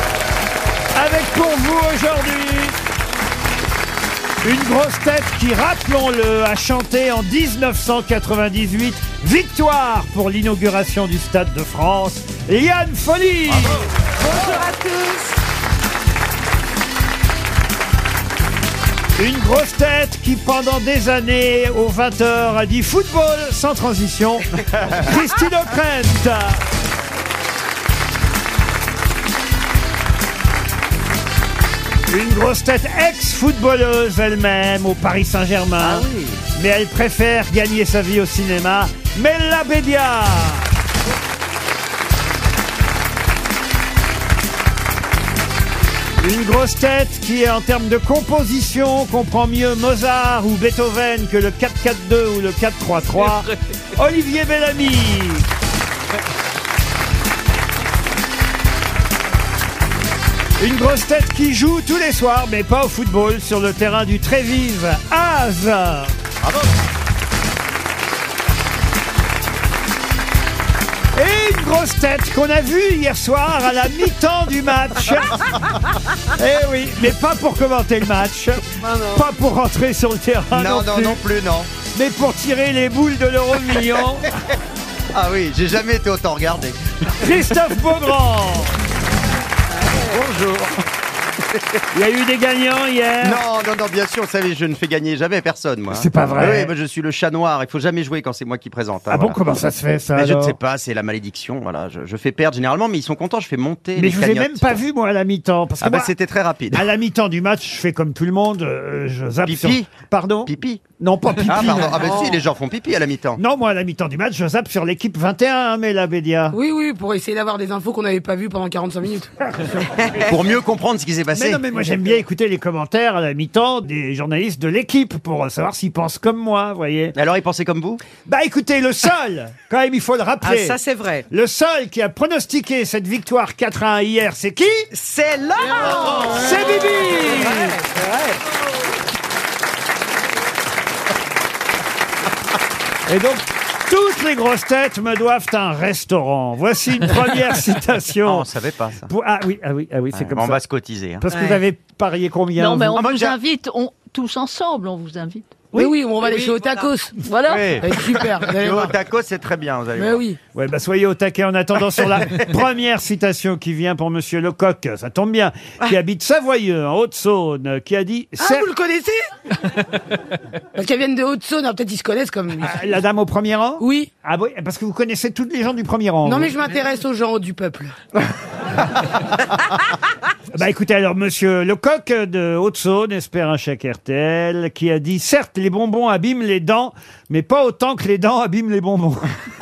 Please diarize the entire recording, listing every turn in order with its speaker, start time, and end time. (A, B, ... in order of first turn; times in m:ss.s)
0:00.9-0:02.8 A
0:04.4-0:13.8 A
0:19.2-0:26.6 A
0:32.1-0:40.7 A
0:35.8-0:36.4 B
0:46.2-0:55.5 A
1:00.6-1:06.1 A
1:06.4-1:06.7 B
1:11.1-1:15.5 A
1:16.3-1:21.2 A
1:20.5-1:21.7 B
1:21.9-1:24.3 A
1:25.1-1:27.1 B
1:27.2-1:28.8 A
1:30.1-1:30.7 B
1:31.9-1:33.4 A
1:33.2-1:39.4 B
1:35.9-1:36.7 A
1:39.1-1:40.6 A
1:40.1-1:44.8 B
1:44.0-1:46.1 A
1:45.8-1:46.8 B
1:46.7-1:52.0 A
1:49.4-1:49.9 B
1:50.4-1:50.8 B
1:51.4-1:53.4 B
1:53.4-1:56.6 A
1:56.5-1:59.3 C
2:00.1-2:01.6 B
2:01.3-2:07.1 A
2:07.1-2:08.0 B
2:08.2-2:14.8 A
2:10.4-2:11.2 D
2:14.9-2:16.4 D
2:16.0-2:17.8 A
2:17.4-2:18.4 D
2:23.1-2:28.5 A
2:28.2-2:29.1 B
2:29.1-2:30.6 A
2:30.1-2:31.2 B
2:31.2-2:33.0 A
2:32.6-2:35.4 E
2:32.9-2:33.4 B
2:35.8-2:37.2 C
2:37.2-2:37.8 E
2:37.4-2:40.2 B
2:37.8-2:39.0 C
2:40.0-2:40.4 C
2:40.5-2:48.7 A
2:48.4-2:49.2 C
2:50.7-2:52.8 C
2:52.6-2:56.5 A
2:53.8-2:54.1 C
2:56.2-2:57.9 C
3:00.5-3:09.3 A